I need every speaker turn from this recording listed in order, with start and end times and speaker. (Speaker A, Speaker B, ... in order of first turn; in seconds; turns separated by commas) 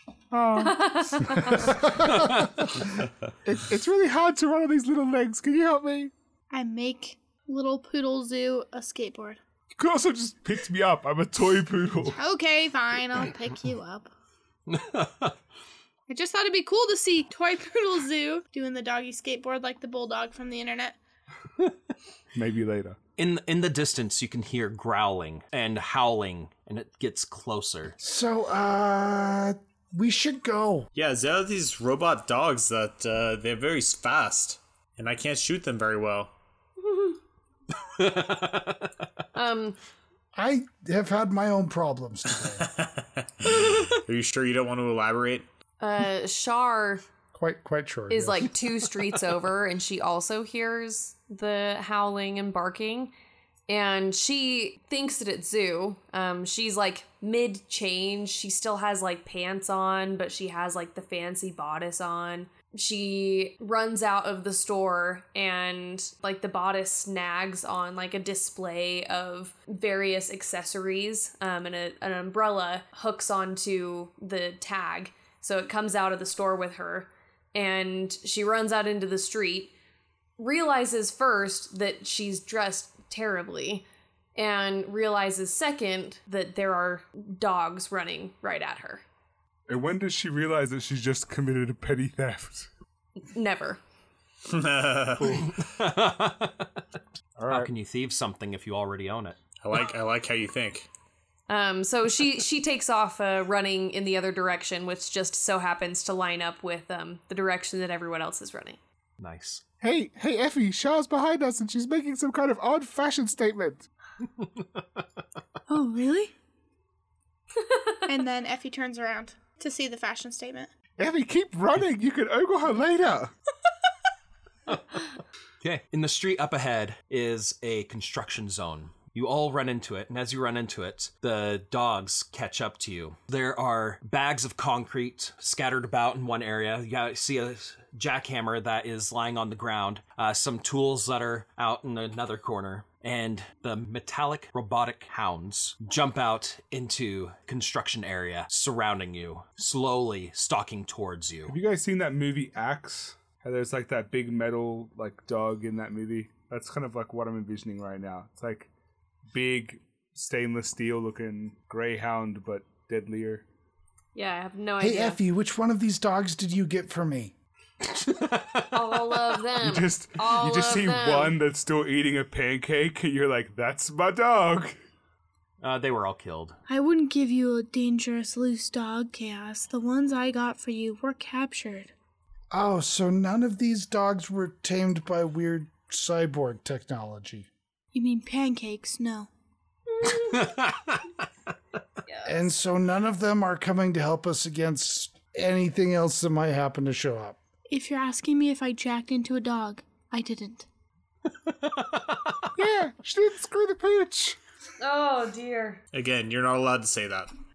Speaker A: 0.3-1.4, Speaker B: 0.6-1.8, Speaker C: 1.7-2.2, Speaker D: 2.0-2.6, Speaker A: 3.4-6.1, Speaker E: 6.5-9.4, Speaker A: 9.8-12.2, Speaker E: 12.2-14.1, Speaker D: 14.7-15.3, Speaker E: 16.1-20.9, Speaker A: 22.3-23.0, Speaker D: 23.2-27.9, Speaker C: 28.0-30.9, Speaker F: 30.9-36.3, Speaker B: 36.8-37.1, Speaker D: 38.0-38.9, Speaker B: 39.3-39.8, Speaker C: 40.3-42.7, Speaker F: 42.6-45.5, Speaker B: 45.8-47.0, Speaker C: 47.3-48.8, Speaker B: 48.1-53.1, Speaker B: 53.7-79.7, Speaker B: 80.4-89.0, Speaker A: 89.7-92.7, Speaker B: 93.3-93.8, Speaker F: 94.5-95.4, Speaker A: 95.2-95.5, Speaker D: 95.2-96.7, Speaker A: 97.4-97.7, Speaker D: 97.5-99.4, Speaker F: 99.6-100.9, Speaker B: 101.5-108.8, Speaker D: 109.2-109.6, Speaker A: 109.8-113.8, Speaker D: 114.4-114.8, Speaker E: 115.7-116.3, Speaker B: 117.6-118.0, Speaker E: 118.1-120.7, Speaker A: 121.0-123.3, Speaker D: 124.7-125.0, Speaker D: 125.6-151.6, Speaker A: 151.5-158.7, Speaker A: 159.3-163.4, Speaker B: 164.1-165.2, Speaker C: 164.8-167.3, Speaker D: 167.8-169.3, Speaker B: 168.7-171.3, Speaker A: 169.6-174.7, Speaker D: 175.6-176.6, Speaker E: 176.7-181.9, Speaker C: 182.5-187.5, Speaker E: 187.9-189.3, Speaker B: 189.9-190.5, Speaker D: 190.2-191.1, Speaker B: 192.1-192.4, Speaker C: 192.2-197.4, Speaker E: 197.7-200.7, Speaker D: 201.4-202.5, Speaker A: 202.6-204.4, Speaker B: 204.8-205.8, Speaker F: 205.9-207.3